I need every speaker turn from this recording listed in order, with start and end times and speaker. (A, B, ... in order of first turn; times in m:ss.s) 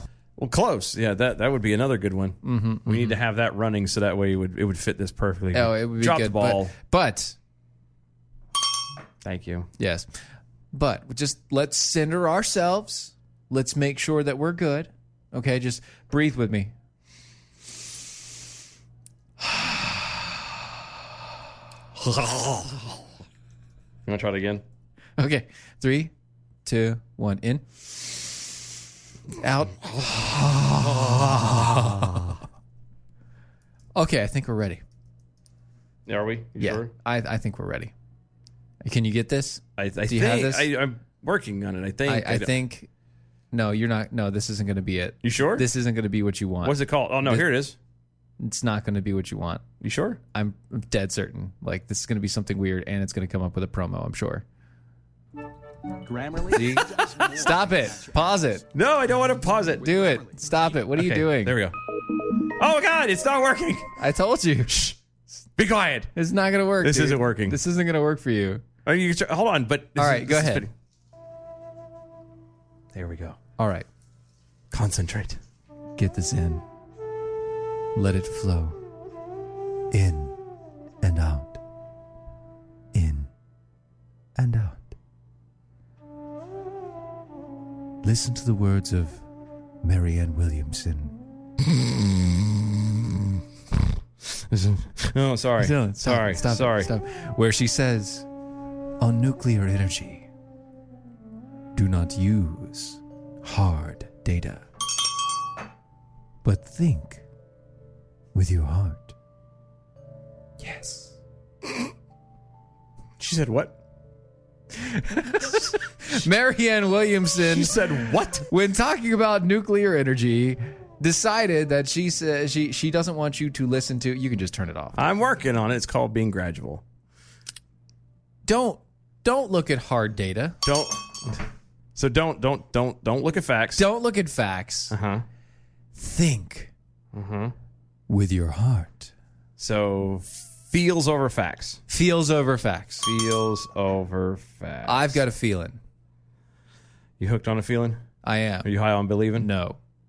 0:00.4-0:06.7 A
0:02.4-0:03.2 B
0:05.5-0:07.4 B
0:09.2-0:09.7 A
0:09.8-0:10.1 B
0:10.7-0:16.7 B
0:22.0-0:22.9 A
0:24.1-0:24.6 A
0:25.2-0:26.1 B
0:26.6-0:28.3 B
0:29.4-0:32.4 B
0:30.8-0:32.1 A
0:34.0-0:34.8 B
0:36.1-0:36.9 A
0:36.6-0:37.9 B
0:38.8-0:40.7 B
0:39.8-0:42.5 A
0:42.0-0:42.9 B
0:43.5-0:47.5 B
0:45.2-0:45.6 A
0:46.6-0:47.8 A
0:48.4-0:49.6 B
0:49.8-0:50.2 A
0:50.3-0:54.4 B
0:56.4-0:58.6 B
0:58.7-0:59.9 A
0:59.8-1:01.6 B
1:00.9-1:01.8 A
1:02.6-1:03.9 A
1:04.0-1:04.8 B
1:04.7-1:05.0 A
1:05.6-1:06.1 A
1:06.1-1:08.6 B
1:06.8-1:07.6 A
1:08.8-1:10.7 A
1:10.0-1:10.7 B
1:12.9-1:13.4 A
1:13.6-1:13.9 B
1:14.7-1:15.4 A
1:16.0-1:16.6 B
1:17.9-1:18.8 B
1:19.9-1:20.4 B
1:21.0-1:21.6 B
1:22.9-1:23.3 B
1:24.4-1:24.9 B
1:28.0-1:29.2 B
1:29.8-1:31.2 B
1:34.3-1:36.9 A
1:35.6-1:38.3 B
1:39.0-1:40.3 B
1:41.7-1:44.6 B
1:46.4-1:47.2 B
1:48.3-1:49.1 B
1:50.6-1:51.1 B
1:53.2-1:53.8 A
1:54.8-2:05.1 B
1:57.5-1:58.4 A
2:05.0-2:06.8 A
2:08.4-2:10.6 B
2:10.6-2:11.4 A
2:12.0-2:13.8 A
2:13.8-2:14.9 B
2:14.9-2:15.2 A
2:15.9-2:16.7 B
2:17.1-2:17.5 A
2:18.1-2:19.1 B
2:19.6-2:21.8 A
2:21.9-2:23.0 B
2:23.0-2:25.2 A
2:24.8-2:25.8 B
2:27.2-2:28.0 A
2:28.2-2:28.7 B
2:28.6-2:29.5 A
2:29.4-2:29.8 B